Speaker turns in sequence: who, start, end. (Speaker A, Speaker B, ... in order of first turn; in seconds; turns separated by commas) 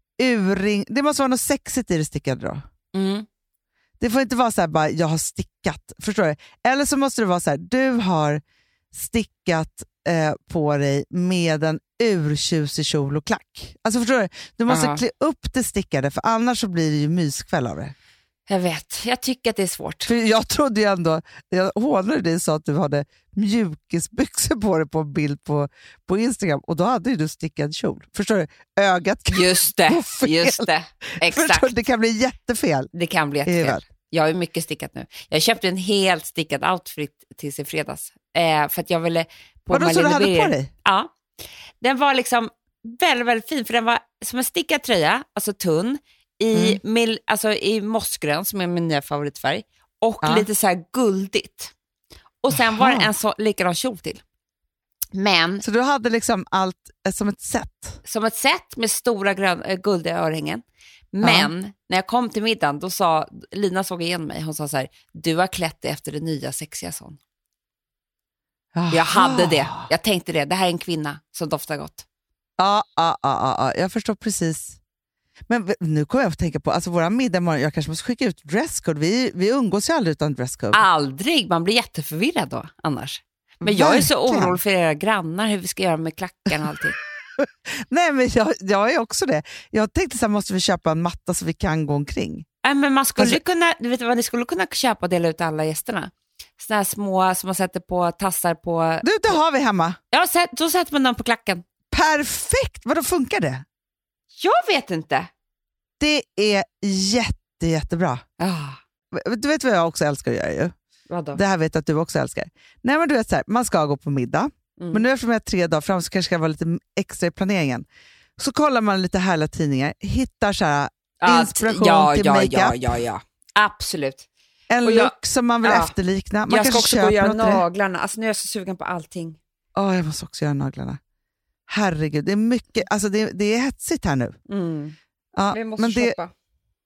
Speaker A: 0.2-2.6, Speaker B: 2.9-3.3, Speaker A: 4.0-8.4, Speaker A: 8.9-17.9, Speaker B: 14.7-15.0, Speaker B: 18.5-20.1, Speaker A: 20.1-32.9, Speaker B: 29.3-31.8, Speaker B: 32.9-41.1, Speaker A: 33.5-33.8, Speaker A: 39.7-40.7, Speaker B: 41.8-51.7, Speaker A: 46.5-46.8, Speaker A: 50.2-50.5, Speaker B: 52.4-54.2, Speaker A: 52.5-53.1, Speaker B: 55.1-55.6, Speaker A: 55.6-58.0, Speaker B: 58.0-67.2, Speaker A: 61.2-61.5, Speaker A: 68.8-69.9, Speaker B: 68.9-72.0, Speaker A: 72.6-74.8, Speaker A: 75.5-80.8, Speaker B: 80.7-87.0, Speaker A: 83.6-84.6, Speaker A: 87.4-92.5, Speaker B: 92.6-99.4, Speaker A: 99.0-100.0, Speaker B: 100.1-101.6, Speaker A: 101.9-103.6, Speaker B: 104.4-105.3, Speaker A: 106.0-108.2, Speaker B: 108.4-108.8, Speaker A: 109.1-110.7, Speaker B: 111.1-111.4, Speaker A: 111.3-117.8, Speaker B: 114.8-115.0, Speaker A: 118.4-123.0, Speaker B: 121.2-124.3, Speaker A: 124.7-127.6, Speaker B: 124.8-126.0, Speaker B: 126.5-129.4, Speaker A: 129.8-131.0, Speaker A: 131.7-134.3, Speaker B: 134.5-135.0, Speaker A: 135.4-136.2, Speaker B: 135.5-136.3